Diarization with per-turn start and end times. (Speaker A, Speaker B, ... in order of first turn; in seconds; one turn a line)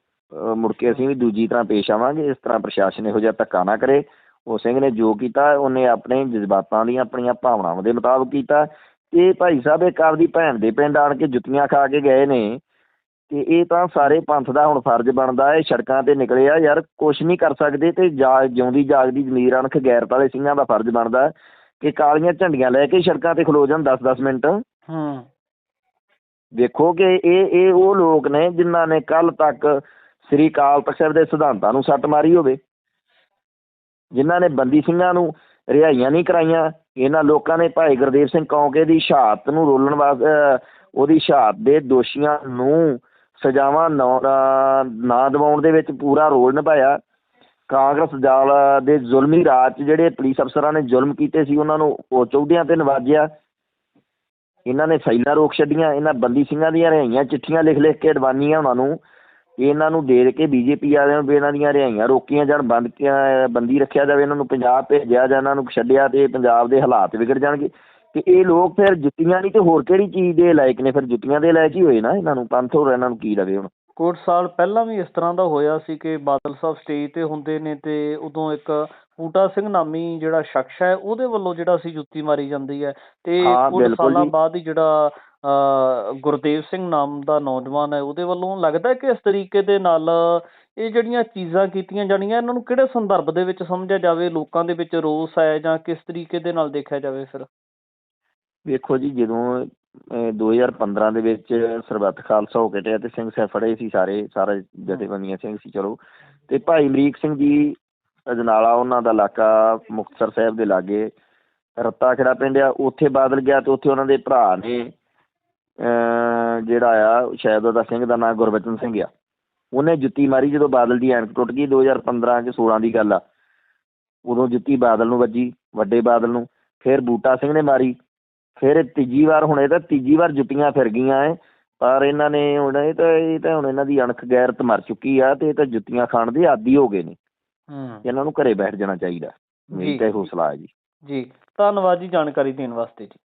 Speaker A: 0.3-12.6
Speaker A: 13.3-24.6
Speaker B: 24.9-25.3
Speaker A: 26.6-32.6
Speaker A: 34.1-47.0
Speaker A: 47.7-53.3
Speaker A: 54.7-59.0
Speaker A: 59.6-73.7
Speaker B: 74.0-97.5
Speaker A: 83.4-84.3
Speaker A: 98.7-106.0
Speaker A: 106.5-107.8
Speaker A: 108.3-111.1
Speaker A: 111.8-114.9
Speaker A: 115.8-119.1
Speaker A: 119.7-123.2
Speaker A: 124.3-128.0
Speaker A: 128.6-137.2
Speaker B: 137.7-138.0
Speaker A: 138.1-140.7
Speaker B: 139.7-140.3
Speaker B: 141.1-143.2